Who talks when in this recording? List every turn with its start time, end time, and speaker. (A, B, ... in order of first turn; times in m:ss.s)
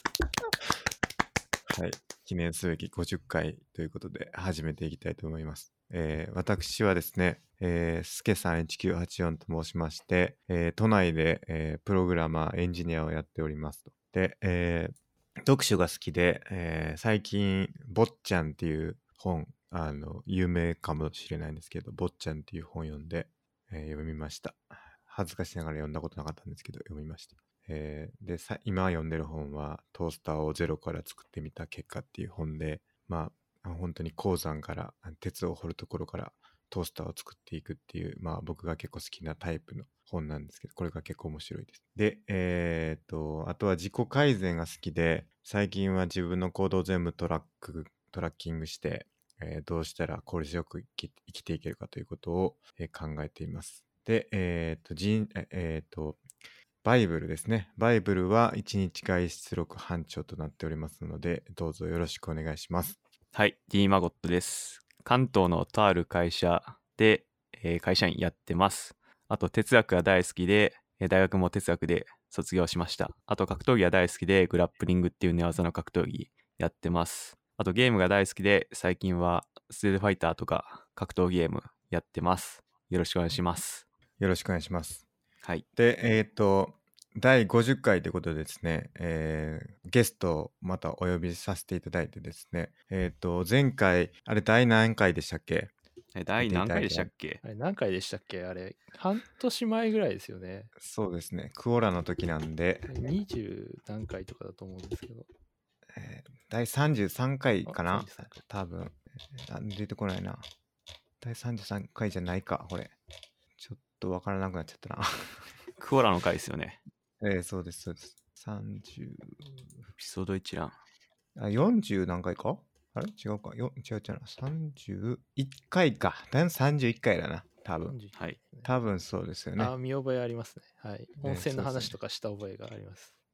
0:01.7-0:56.2 A
0:56.8-1:03.0 A
1:03.3-1:23.8 B
1:24.2-1:25.0 A
1:25.8-1:35.7 A
1:36.1-1:37.4 B
1:36.4-1:37.1 A
1:37.4-1:40.7 C
1:40.8-1:42.9 A
1:42.9-1:45.3 C
1:46.0-1:50.4 A
1:47.7-1:48.4 C
1:51.2-1:53.0 A
1:53.6-1:55.4 A
1:55.8-1:56.8 B
1:57.2-1:59.5 A
2:00.0-2:00.8 B
2:01.4-2:08.0 A
2:07.8-2:08.7 C
2:08.6-2:09.7 A
2:09.6-2:13.1 C
2:11.2-2:12.0 A